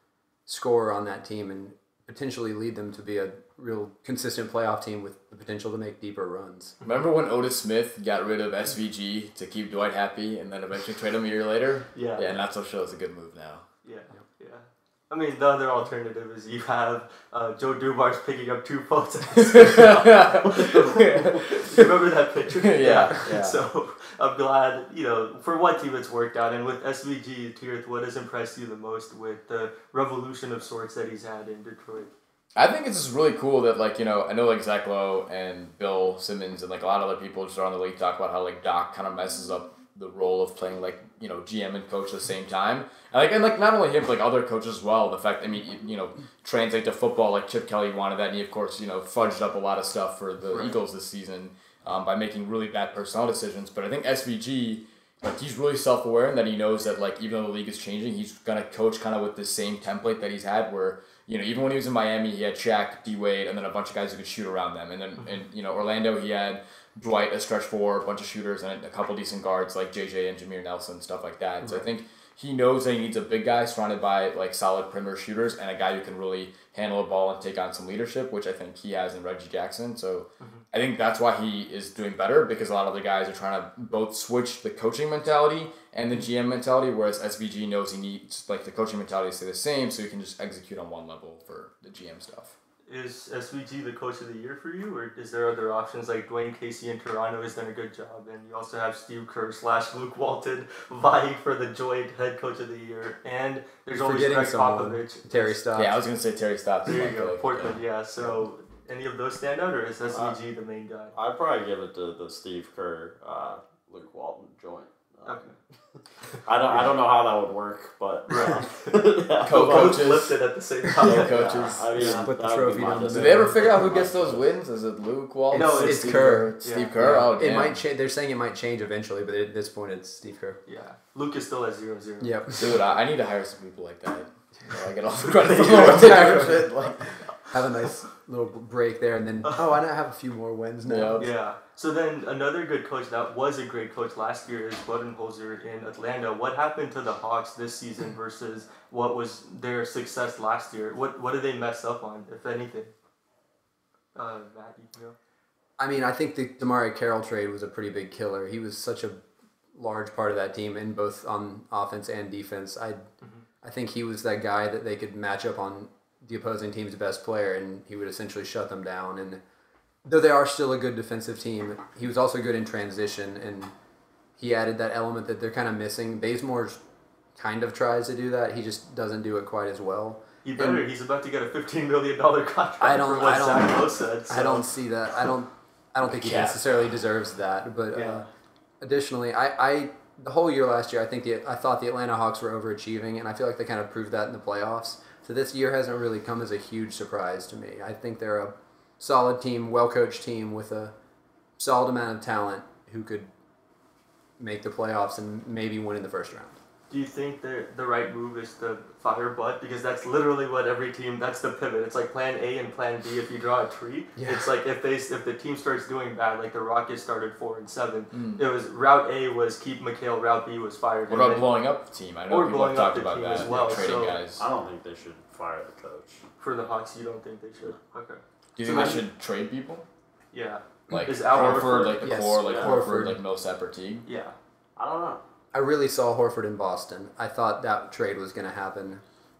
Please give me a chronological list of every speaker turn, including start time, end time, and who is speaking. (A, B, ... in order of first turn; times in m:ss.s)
0:00.5-0:06.8 A
0:06.8-0:13.7 B
0:11.9-0:12.4 C
0:13.8-0:32.1 C
0:19.4-0:21.9 B
0:22.6-0:23.6 B
0:32.6-1:32.6 B
1:32.9-1:45.6 C
1:43.9-1:46.0 A
1:45.7-1:47.8 B
1:46.9-1:51.1 C
1:50.1-1:50.4 D
1:51.1-2:00.1 D
1:55.3-1:55.6 C
1:58.3-1:59.0 C
1:59.4-2:00.4 B
1:59.5-2:02.3 C
2:01.0-2:01.9 B
2:01.0-2:04.4 D
2:02.1-2:03.9 A
2:03.0-2:07.8 B
2:05.5-2:10.6 A
2:05.5-2:06.9 C
2:10.7-2:12.4 C
2:12.2-2:12.7 A
2:12.6-2:17.0 B
2:15.4-2:16.6 C
2:15.5-2:21.3 A
2:20.8-2:21.3 B
2:21.2-2:32.9 C
2:34.2-2:35.2 C
2:35.8-2:39.2 A
2:39.8-2:43.1 A
2:43.6-2:49.4 A
2:50.0-2:53.7 A
2:54.4-2:56.8 A
2:57.4-3:00.2 A
3:00.4-3:04.7 C
3:02.8-3:08.2 A
3:06.1-3:06.9 B
3:07.9-3:08.3 C
3:08.8-3:20.9 A
3:21.6-3:23.3 A
3:24.4-3:26.6 A
3:26.9-3:41.5 C
3:34.2-3:34.5 A
3:38.1-3:38.4 B
3:41.1-3:44.4 B
3:42.3-3:44.2 C
3:44.4-3:46.2 D
3:46.4-3:49.0 C
3:48.6-3:49.9 B
3:50.3-3:52.0 C
3:50.9-3:54.1 B
3:52.0-3:53.2 A
3:52.4-3:52.8 D
3:54.1-3:54.4 C
3:54.8-3:55.2 D
3:55.5-3:59.0 A